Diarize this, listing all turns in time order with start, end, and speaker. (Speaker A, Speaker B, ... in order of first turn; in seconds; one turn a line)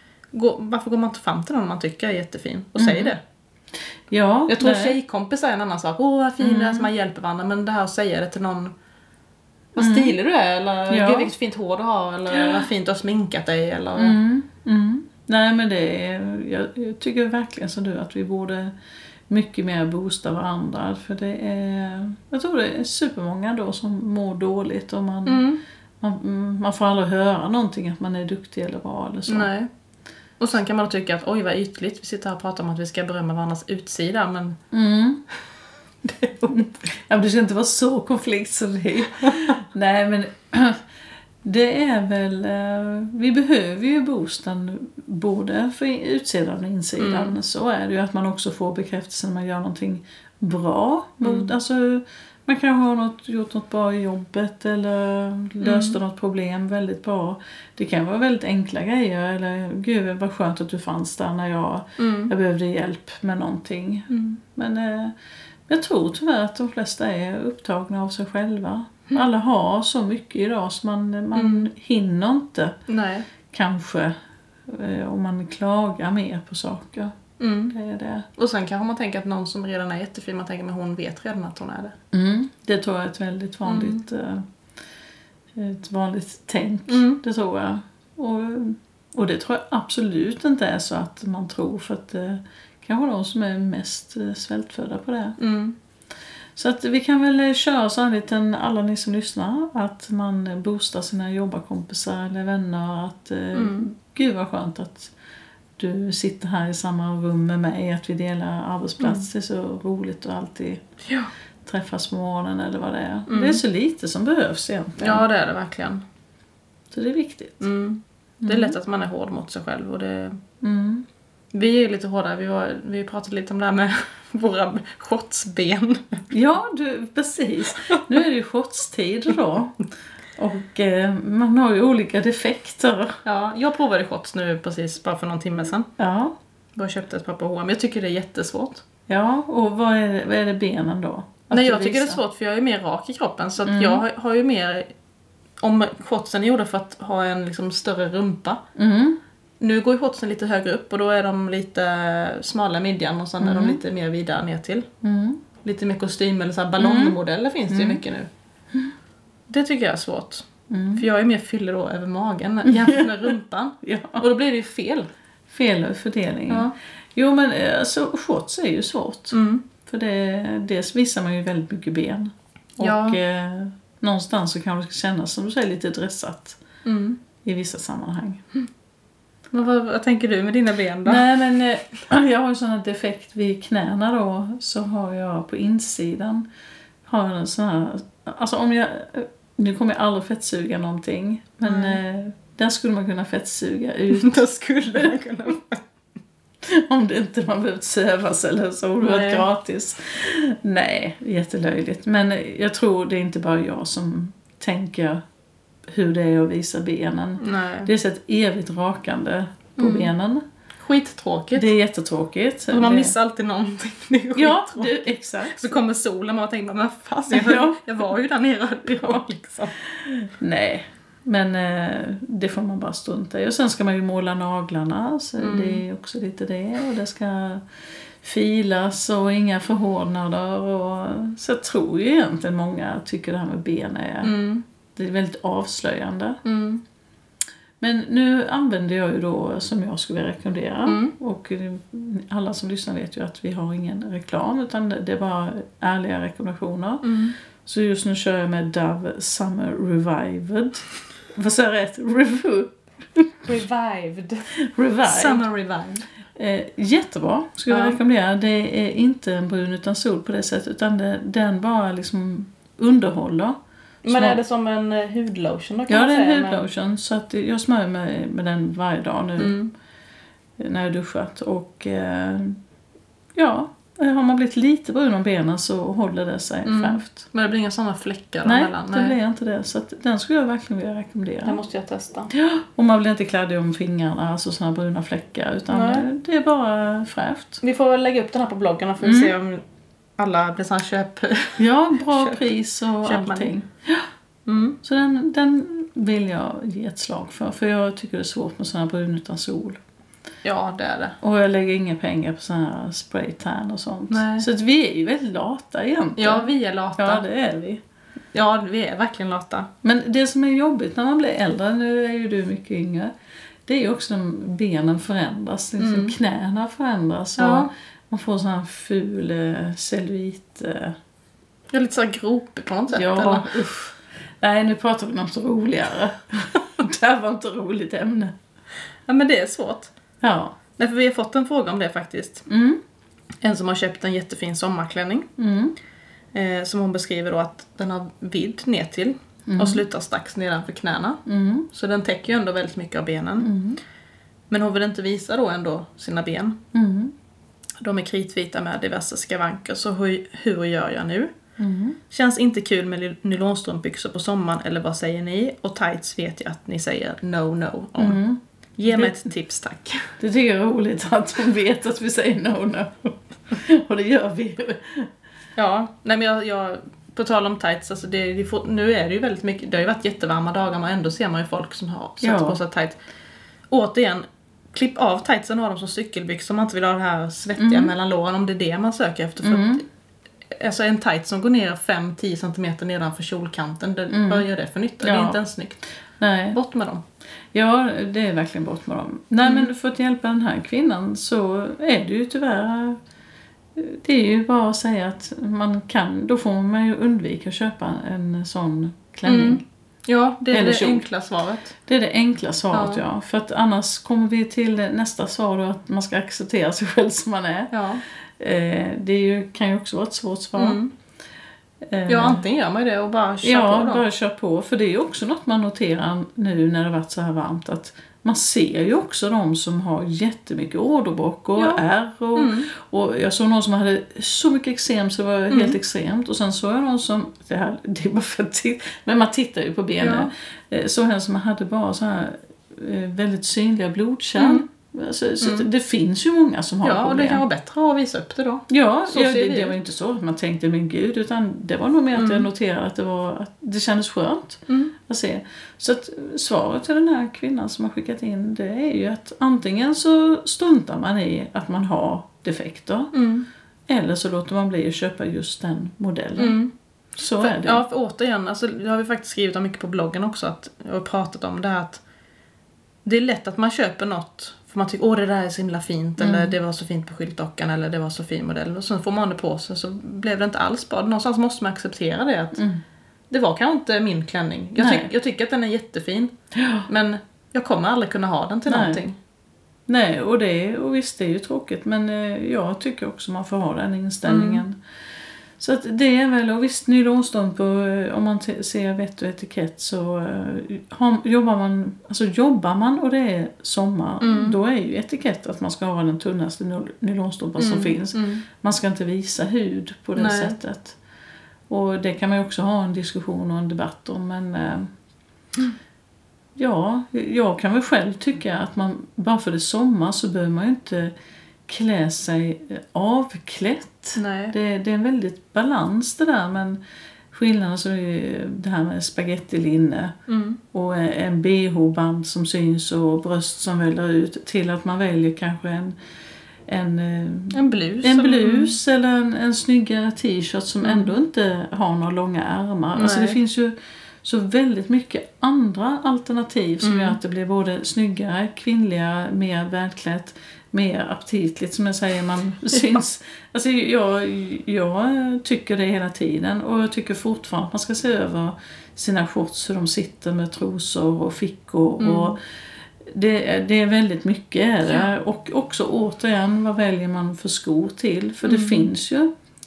Speaker A: 0.3-3.2
Speaker B: 2.8-3.1
Speaker B: 4.1-5.0
Speaker A: 4.5-8.7
Speaker B: 6.4-6.9
Speaker A: 9.7-14.2
Speaker B: 9.8-10.1
Speaker B: 10.9-11.3
Speaker B: 12.3-12.6
Speaker B: 13.9-18.7
Speaker B: 19.3-25.5
Speaker A: 25.2-25.6
Speaker B: 26.0-29.5
Speaker A: 29.3-29.7
Speaker A: 30.4-34.6
Speaker B: 34.7-35.2
Speaker A: 36.0-36.6
Speaker B: 36.5-40.8
Speaker B: 41.4-65.1
Speaker A: 47.0-47.3
Speaker A: 51.2-51.5
Speaker A: 55.6-56.0
Speaker A: 62.0-62.3
Speaker A: 64.1-64.4
Speaker B: 65.7-72.8
Speaker A: 71.3-71.7
Speaker A: 72.9-73.3
Speaker B: 73.5-74.1
Speaker B: 74.7-77.2
Speaker A: 77.4-77.7
Speaker B: 77.7-78.3
Speaker A: 78.4-81.9
Speaker B: 82.1-84.5
Speaker A: 83.7-84.0
Speaker B: 85.5-95.4
Speaker A: 86.9-87.2
Speaker A: 95.4-95.8
Speaker B: 96.5-105.1
Speaker A: 103.5-103.8
Speaker B: 105.8-110.8
Speaker A: 109.0-109.2
Speaker B: 111.6-115.2
Speaker A: 113.3-113.6
Speaker A: 115.0-116.0
Speaker B: 116.9-117.7
Speaker A: 117.6-120.4
Speaker B: 118.4-118.8
Speaker B: 120.6-121.0
Speaker A: 121.5-126.2
Speaker B: 126.3-129.8
Speaker A: 127.7-128.2
Speaker B: 130.3-133.2
Speaker A: 133.2-135.9
Speaker B: 136.0-136.3
Speaker A: 136.8-138.8
Speaker B: 139.1-142.2
Speaker A: 141.5-144.9
Speaker B: 143.6-144.0
Speaker A: 145.6-148.6
Speaker B: 148.8-149.2
Speaker A: 149.6-154.9
Speaker B: 153.4-153.8
Speaker B: 155.0-155.4
Speaker A: 155.6-158.3
Speaker B: 156.8-157.2
Speaker B: 157.7-158.0
Speaker A: 159.5-165.1
Speaker B: 160.7-161.0
Speaker B: 162.6-164.2
Speaker B: 165.5-176.6
Speaker A: 169.3-169.6
Speaker A: 172.8-173.2
Speaker A: 176.8-177.2
Speaker B: 177.4-178.4
Speaker A: 179.5-181.2
Speaker B: 181.0-186.5
Speaker B: 187.0-195.1
Speaker A: 191.6-192.0
Speaker A: 194.1-195.8
Speaker B: 196.6-205.2
Speaker A: 199.0-199.4
Speaker B: 205.9-210.4
Speaker A: 207.4-207.9
Speaker A: 209.8-210.1
Speaker A: 210.8-211.7
Speaker B: 211.5-213.2
Speaker A: 212.7-219.7
Speaker B: 214.3-215.7
Speaker B: 217.3-217.8
Speaker B: 218.9-219.2
Speaker B: 220.0-227.6
Speaker A: 225.4-225.8
Speaker B: 228.2-234.3
Speaker A: 234.2-234.6
Speaker B: 234.9-236.4
Speaker A: 236.4-236.8
Speaker B: 237.8-253.5
Speaker A: 240.8-241.1
Speaker A: 247.0-247.3
Speaker A: 253.4-254.4
Speaker B: 254.5-255.4
Speaker A: 255.0-256.1
Speaker B: 256.4-264.4
Speaker A: 257.7-258.0
Speaker A: 264.0-266.6
Speaker B: 265.9-269.6
Speaker A: 269.4-269.7
Speaker B: 270.6-272.6
Speaker B: 273.3-277.2
Speaker A: 276.6-279.1
Speaker B: 278.4-281.6
Speaker A: 281.4-282.3
Speaker B: 282.3-287.6
Speaker A: 285.7-286.1
Speaker A: 287.6-289.6
Speaker B: 289.0-289.3
Speaker A: 290.2-292.5
Speaker B: 291.6-294.1
Speaker A: 293.0-293.5
Speaker A: 294.4-294.8
Speaker B: 294.8-299.8
Speaker A: 300.4-301.2
Speaker B: 301.2-307.8
Speaker A: 304.1-304.5
Speaker A: 306.2-307.2
Speaker A: 308.3-309.7
Speaker B: 309.8-313.1
Speaker B: 313.7-320.9
Speaker A: 315.8-316.1
Speaker A: 317.4-317.7
Speaker A: 321.7-323.5
Speaker B: 322.9-328.3
Speaker A: 329.1-329.9
Speaker B: 330.2-330.6
Speaker A: 330.8-332.5
Speaker B: 332.5-332.8
Speaker A: 333.4-335.3
Speaker B: 335.4-335.7
Speaker A: 336.3-341.2
Speaker B: 339.5-339.8
Speaker B: 341.2-341.7
Speaker A: 341.7-343.5
Speaker B: 343.4-343.8
Speaker A: 344.5-346.6
Speaker B: 346.7-347.1
Speaker A: 347.8-351.3
Speaker B: 351.6-352.0
Speaker A: 352.1-358.2
Speaker B: 358.0-359.3
Speaker A: 358.8-360.1
Speaker B: 360.2-365.1
Speaker A: 365.6-373.0
Speaker B: 372.2-372.6
Speaker A: 373.7-379.8
Speaker B: 377.6-377.9
Speaker B: 379.4-379.8
Speaker A: 380.5-385.8
Speaker B: 384.1-384.5
Speaker B: 385.0-385.4
Speaker B: 386.2-386.6
Speaker A: 386.5-387.0
Speaker B: 387.5-393.0
Speaker A: 389.4-389.7
Speaker B: 393.8-399.6
Speaker A: 399.2-401.7
Speaker B: 400.5-401.1
Speaker B: 401.9-407.7
Speaker A: 402.7-403.0
Speaker A: 407.7-408.0
Speaker B: 408.4-410.8
Speaker A: 410.6-410.9
Speaker B: 411.9-412.4
Speaker A: 412.1-414.0
Speaker B: 413.4-437.4
Speaker A: 421.6-421.8
Speaker A: 422.3-422.7
Speaker A: 425.5-425.8
Speaker A: 430.0-430.3
Speaker A: 434.4-434.6
Speaker A: 435.4-435.7
Speaker A: 436.8-439.7
Speaker B: 438.7-453.1
Speaker A: 442.1-442.5
Speaker A: 453.1-453.5
Speaker B: 453.9-456.6
Speaker A: 456.4-456.7
Speaker B: 457.2-457.8
Speaker A: 457.4-462.0
Speaker A: 463.0-472.6
Speaker B: 466.2-466.6
Speaker B: 472.5-472.8
Speaker A: 473.3-476.3
Speaker B: 474.8-475.1
Speaker B: 476.5-476.9
Speaker A: 476.9-479.1
Speaker B: 478.7-479.0
Speaker B: 479.9-484.8
Speaker A: 484.2-484.6
Speaker B: 485.6-501.0
Speaker A: 494.2-494.6
Speaker A: 497.6-498.4
Speaker A: 500.2-500.6
Speaker B: 501.7-504.9
Speaker B: 506.6-511.1
Speaker B: 511.7-516.8
Speaker A: 514.1-514.5
Speaker B: 517.3-520.1
Speaker A: 520.3-520.6
Speaker B: 520.7-526.0
Speaker B: 526.7-552.4
Speaker A: 527.5-528.8
Speaker A: 530.8-531.1
Speaker A: 533.0-533.4
Speaker A: 536.8-537.2
Speaker A: 542.7-543.0
Speaker A: 552.0-552.4
Speaker B: 553.0-559.3
Speaker A: 558.4-558.9